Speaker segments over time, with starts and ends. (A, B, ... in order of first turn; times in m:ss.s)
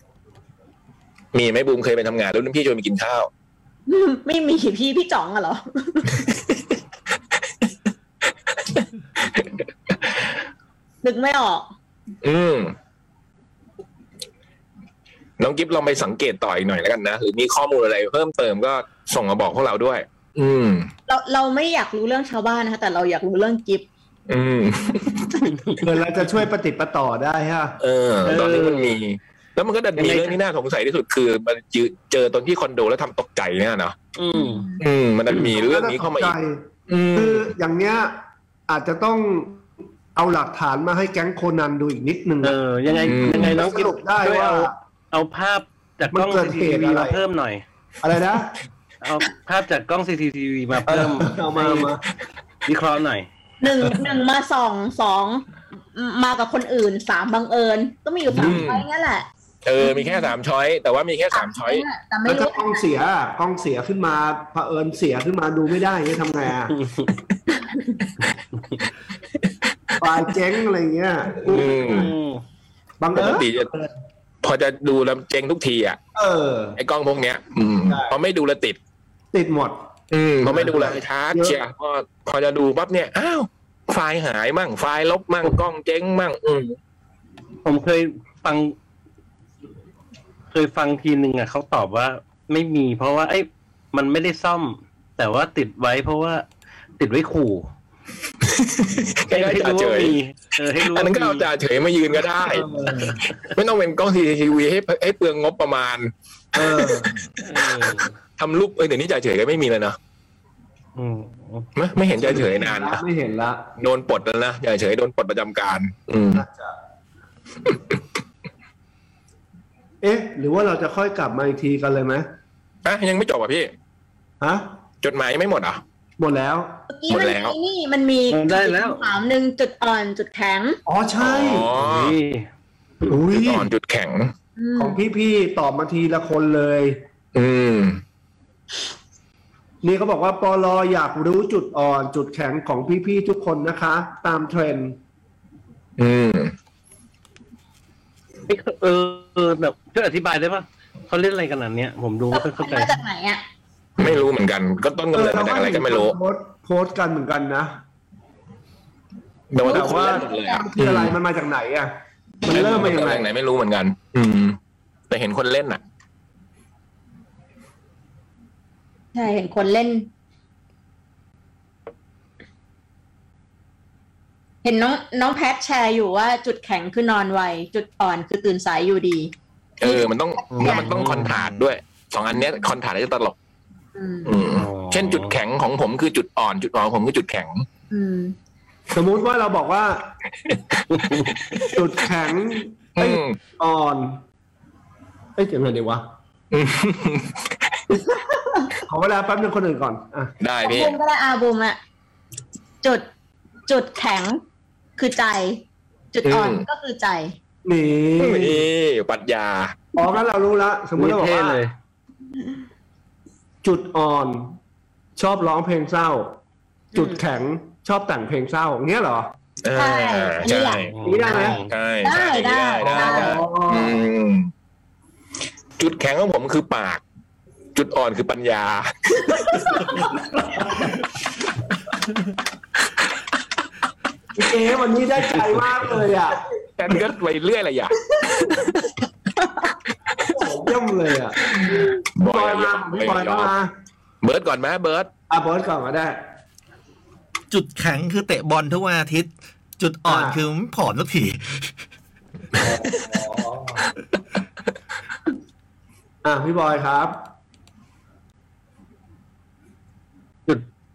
0:01.3-0:03.3 A
0:03.9-0:06.3 B
0:08.7-0:09.5 A
0:11.0-0:11.7 B
0:12.2-0:12.8 A
0:15.4-0:20.9 A
0:21.1-0:23.9 B
0:24.3-0:25.3 A
0:25.5-0:25.8 C
0:25.8-0:27.8 D
0:27.8-0:34.0 A
0:28.2-0:29.0 C
0:30.0-0:30.4 C
0:34.2-0:34.7 C
0:34.4-0:34.8 B
0:34.8-0:36.4 A
0:35.4-0:44.7 D
0:36.9-0:37.5 A
0:42.4-0:47.6 C
0:43.0-0:43.6 A
0:46.1-0:47.2 D
0:48.0-0:48.5 D
0:49.0-0:51.9 C
0:50.9-0:52.0 D
0:52.7-0:53.3 C
0:53.6-0:59.3 B
0:58.3-0:58.9 A
0:58.4-0:58.6 D
0:59.6-1:01.9 A
0:59.8-1:00.3 B
1:01.3-1:02.8 B
1:02.3-1:06.8 D
1:06.8-1:07.1 C
1:10.0-1:12.1 D
1:11.5-1:12.1 A
1:11.8-1:12.4 C
1:13.0-1:13.9 D
1:13.2-1:13.7 A
1:14.4-1:16.0 A
1:16.2-1:16.8 D
1:16.8-1:18.8 A
1:17.9-1:18.2 D
1:19.3-1:19.8 D
1:20.1-1:26.8 A
1:20.4-1:21.6 D
1:27.6-1:28.8 C
1:30.5-1:36.5 C
1:37.0-1:37.7 C
1:38.5-1:40.2 A
1:39.3-1:41.5 C
1:40.8-1:42.7 A
1:42.4-1:43.2 D
1:43.5-1:47.6 A
1:46.6-1:47.2 D
1:47.4-1:48.1 C
1:48.4-1:50.0 A
1:51.0-1:51.7 C
1:51.8-1:53.0 A
1:52.2-1:53.7 D
1:53.8-1:56.4 A
1:56.3-1:56.8 D
2:00.0-2:02.3 D
2:02.8-2:03.7 A
2:04.4-2:04.7 D
2:05.0-2:05.8 A
2:06.2-2:06.8 D
2:06.9-2:10.8 B
2:07.1-2:07.6 A
2:08.3-2:09.1 C
2:10.9-2:11.7 D
2:11.2-2:12.2 A
2:11.7-2:12.5 C
2:13.1-2:13.7 D
2:13.3-2:14.3 A
2:14.6-2:15.0 B
2:14.8-2:17.0 D
2:17.4-2:18.0 A
2:19.8-2:25.0 D
2:26.0-2:26.5 A
2:28.5-2:32.9 C
2:32.3-2:33.4 B
2:34.0-2:36.2 A
2:35.1-2:37.8 D
2:39.5-2:41.2 A
2:39.6-2:40.6 B
2:39.6-2:41.9 D
2:42.4-2:43.3 D
2:42.5-2:44.6 A
2:45.1-2:45.8 A
2:49.1-2:50.1 B
2:54.6-3:01.0 B
2:59.8-3:03.4 A
3:00.9-3:01.4 C
3:04.0-3:04.4 B
3:04.2-3:07.7 A
3:04.5-3:05.4 C
3:07.9-3:08.4 B
3:08.9-3:10.1 D
3:10.9-3:11.4 C
3:11.7-3:14.2 D
3:13.0-3:13.4 A
3:15.4-3:16.1 D
3:16.5-3:17.5 A
3:18.0-3:18.8 B
3:18.9-3:20.3 D
3:20.4-3:21.0 A
3:20.6-3:21.8 B
3:23.7-3:24.4 B
3:25.0-3:27.4 B
3:26.2-3:26.6 A
3:27.6-3:28.7 D
3:28.2-3:29.8 A
3:30.0-3:31.6 D
3:31.0-3:31.7 C
3:33.6-3:34.6 D
3:35.2-3:36.4 D
3:36.9-3:37.2 B
3:36.9-3:39.3 D
3:39.6-3:40.9 A
3:39.8-3:43.4 B
3:40.9-3:41.7 C
3:41.0-3:41.6 D
3:41.7-3:44.5 A
3:42.8-3:44.0 D
3:45.8-3:47.0 A
3:47.8-3:49.9 A
3:49.3-3:50.0 B
3:50.4-3:50.9 D
3:54.4-3:56.4 D
3:56.8-3:58.9 A
4:00.3-4:03.7 D
4:01.5-4:03.5 A
4:04.2-4:05.1 A
4:05.3-4:06.2 D
4:07.5-4:11.7 E
4:10.1-4:10.4 D
4:12.6-4:13.8 D
4:16.2-4:17.2 D